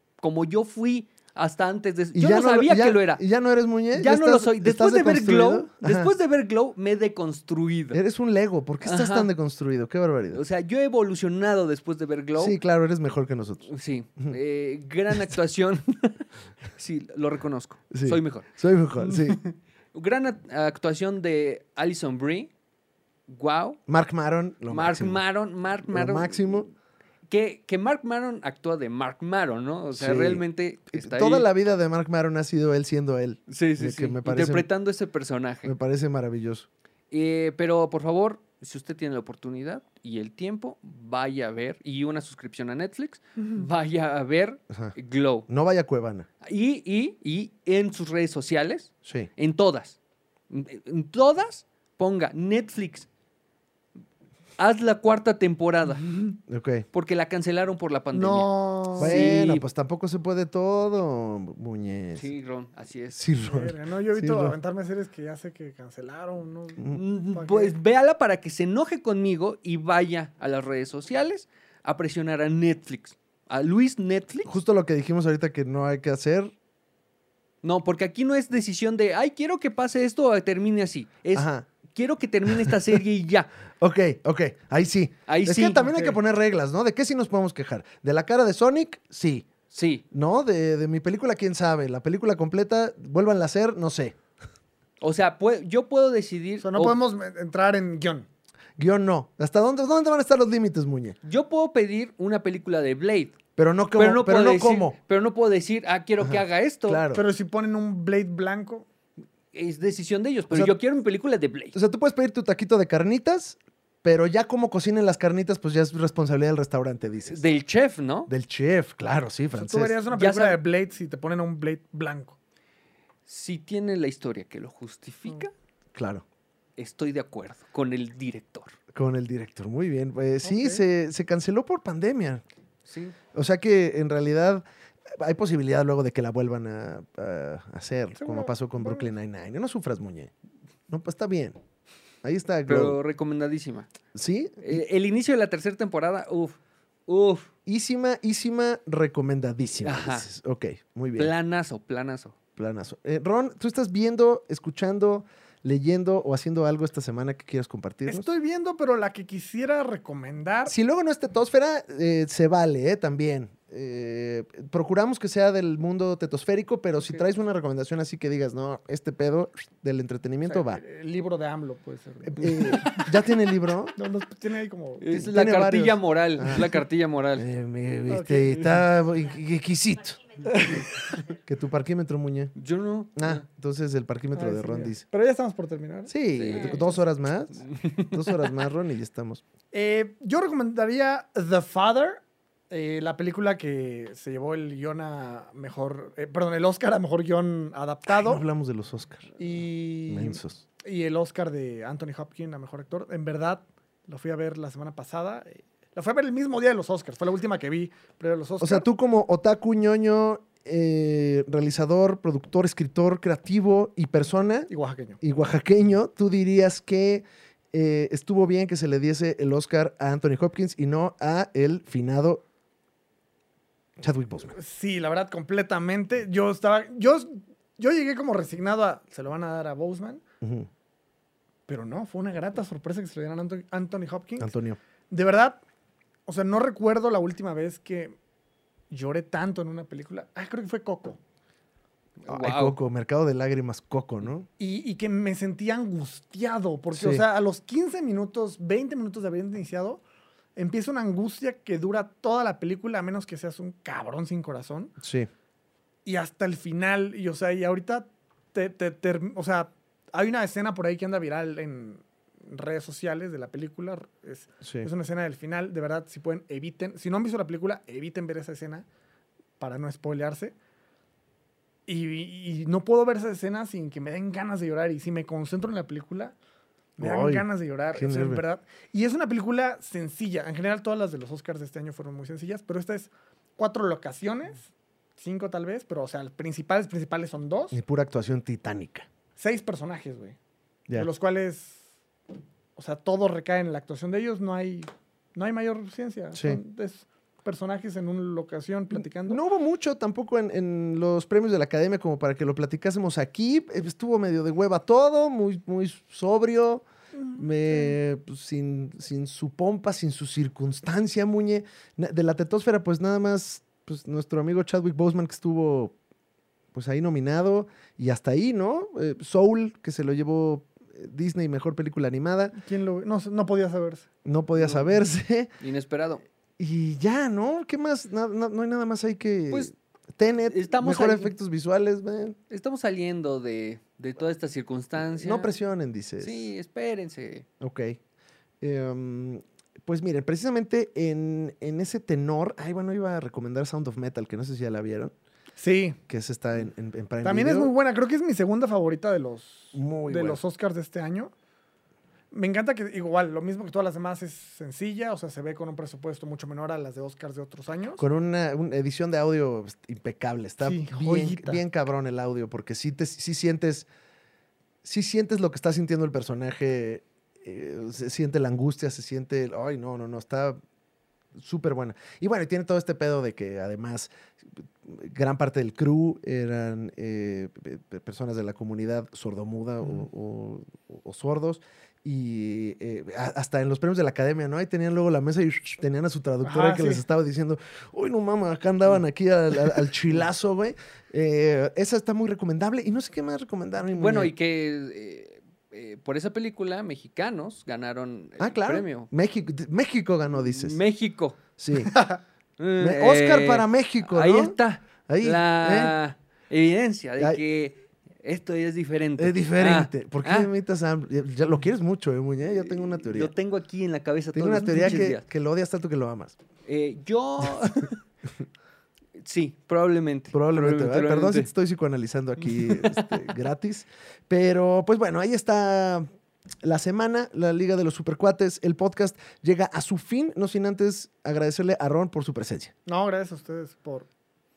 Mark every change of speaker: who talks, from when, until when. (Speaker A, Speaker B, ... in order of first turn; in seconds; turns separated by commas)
Speaker A: 0.2-3.2, Speaker B: 2.1-6.1, Speaker A: 3.9-8.0, Speaker B: 7.9-10.4, Speaker A: 8.8-9.3, Speaker A: 10.3-12.6, Speaker B: 12.3-14.4, Speaker A: 13.7-18.5, Speaker B: 17.9-19.4, Speaker A: 19.0-22.5, Speaker A: 23.3-23.8, Speaker B: 23.9-25.2, Speaker A: 24.7-26.7, Speaker B: 25.8-26.6, Speaker A: 27.3-31.5, Speaker B: 29.9-34.6, Speaker A: 33.5-35.7, Speaker B: 35.6-36.7, Speaker A: 37.1-45.5, Speaker B: 44.7-44.9, Speaker B: 45.5-46.3, Speaker A: 46.4-50.0, Speaker B: 49.0-49.3, Speaker A: 50.5-53.1, Speaker A: 54.6-56.0, Speaker C: 56.0-56.4, Speaker B: 56.5-56.9, Speaker A: 56.9-59.6, Speaker C: 58.1-59.3, Speaker B: 59.0-62.3, Speaker A: 62.1-63.2, Speaker B: 63.1-64.6, Speaker C: 63.4-67.7, Speaker A: 66.9-74.5, Speaker B: 74.5-76.5, Speaker A: 77.6-83.5, Speaker B: 81.3-81.7, Speaker B: 83.8-89.5, Speaker A: 85.3-85.9, Speaker C: 85.8-86.2, Speaker A: 89.7-90.0, Speaker B: 90.1-94.2, Speaker A: 95.0-97.0, Speaker C: 96.6-98.2, Speaker B: 98.8-101.2, Speaker A: 101.2-103.4, Speaker B: 103.6-105.0, Speaker A: 104.0-107.0, Speaker B: 106.2-107.2, Speaker C: 107.1-108.8, Speaker A: 109.5-111.8, Speaker B: 110.5-110.8, Speaker B: 111.7-117.4, Speaker A: 117.3-118.3, Speaker B: 118.3-119.9, Speaker C: 119.5-122.4, Speaker A: 120.1-120.6, Speaker A: 123.2-125.5, Speaker B: 125.9-126.2, Speaker A: 126.8-128.8, Speaker B: 128.9-132.4, Speaker C: 130.4-130.8, Speaker A: 132.8-133.1, Speaker B: 133.3-134.6, Speaker B: 135.2-140.3, Speaker C: 138.2-139.1, Speaker B: 140.9-141.6, Speaker B: 142.2-143.0, Speaker A: 142.7-143.9, Speaker B: 144.1-144.8, Speaker A: 144.6-147.5, Speaker B: 147.7-151.3, Speaker A: 149.8-150.3, Speaker A: 151.2-152.3, Speaker B: 152.6-158.3, Speaker C: 158.1-160.7, Speaker B: 160.7-170.8, Speaker C: 170.4-173.1, Speaker B: 172.2-173.9, Speaker C: 173.9-175.1, Speaker A: 175.0-177.5, Speaker B: 175.1-176.7, Speaker B: 177.4-180.2, Speaker C: 178.1-178.7, Speaker C: 180.4-181.2, Speaker B: 181.4-182.5, Speaker A: 182.6-183.4, Speaker B: 183.2-185.0, Speaker C: 184.3-187.0, Speaker B: 186.1-189.4, Speaker A: 186.3-186.9, Speaker A: 187.7-188.2, Speaker C: 189.7-198.4, Speaker B: 198.1-199.3, Speaker C: 199.4-208.9, Speaker B: 200.1-200.6, Speaker B: 208.6-214.7, Speaker C: 214.7-215.2, Speaker B: 215.2-222.4, Speaker B: 224.0-224.5, Speaker C: 224.5-230.2, Speaker B: 230.4-230.7, Speaker C: 231.7-234.5, Speaker B: 234.4-234.8, Speaker C: 235.1-235.6, Speaker C: 236.3-238.2, Speaker C: 238.9-241.2, Speaker A: 242.2-242.8, Speaker B: 242.3-244.5, Speaker C: 244.6-250.0, Speaker B: 246.9-247.2, Speaker C: 250.6-254.9, Speaker B: 255.0-255.3, Speaker C: 256.0-268.8, Speaker B: 264.6-264.9, Speaker C: 269.6-270.5, Speaker C: 271.9-276.3, Speaker B: 277.0-278.4, Speaker C: 277.0-287.8, Speaker B: 287.7-289.1, Speaker C: 289.4-290.4, Speaker C: 290.9-291.8, Speaker C: 292.8-299.4, Speaker B: 296.3-296.6, Speaker B: 299.0-315.9, Speaker C: 307.1-307.9, Speaker B: 316.7-322.6, Speaker C: 322.5-324.1, Speaker B: 324.2-325.5, Speaker A: 324.6-324.9, Speaker A: 325.6-326.2, Speaker B: 326.6-332.4, Speaker A: 330.5-331.3, Speaker A: 332.5-335.5, Speaker B: 335.1-336.5, Speaker A: 336.2-337.4, Speaker B: 337.6-338.0, Speaker B: 338.6-345.1, Speaker C: 345.6-346.0, Speaker B: 346.1-347.7, Speaker C: 347.2-351.3, Speaker B: 349.7-350.4, Speaker C: 352.3-358.0, Speaker B: 358.0-363.9, Speaker C: 360.6-361.6, Speaker B: 364.8-370.6, Speaker B: 371.3-394.3, Speaker C: 386.4-387.0, Speaker A: 393.9-399.1, Speaker B: 398.4-400.8, Speaker A: 400.5-401.4, Speaker B: 401.6-402.0, Speaker C: 401.9-402.2, Speaker A: 402.6-410.5, Speaker B: 402.8-404.6, Speaker B: 405.1-405.9, Speaker B: 409.2-413.3, Speaker A: 412.6-415.2, Speaker B: 414.3-416.4, Speaker C: 414.7-414.9, Speaker A: 416.6-418.0, Speaker A: 419.2-421.5, Speaker B: 420.3-426.1, Speaker A: 422.4-423.1, Speaker B: 426.6-432.7, Speaker C: 432.9-434.1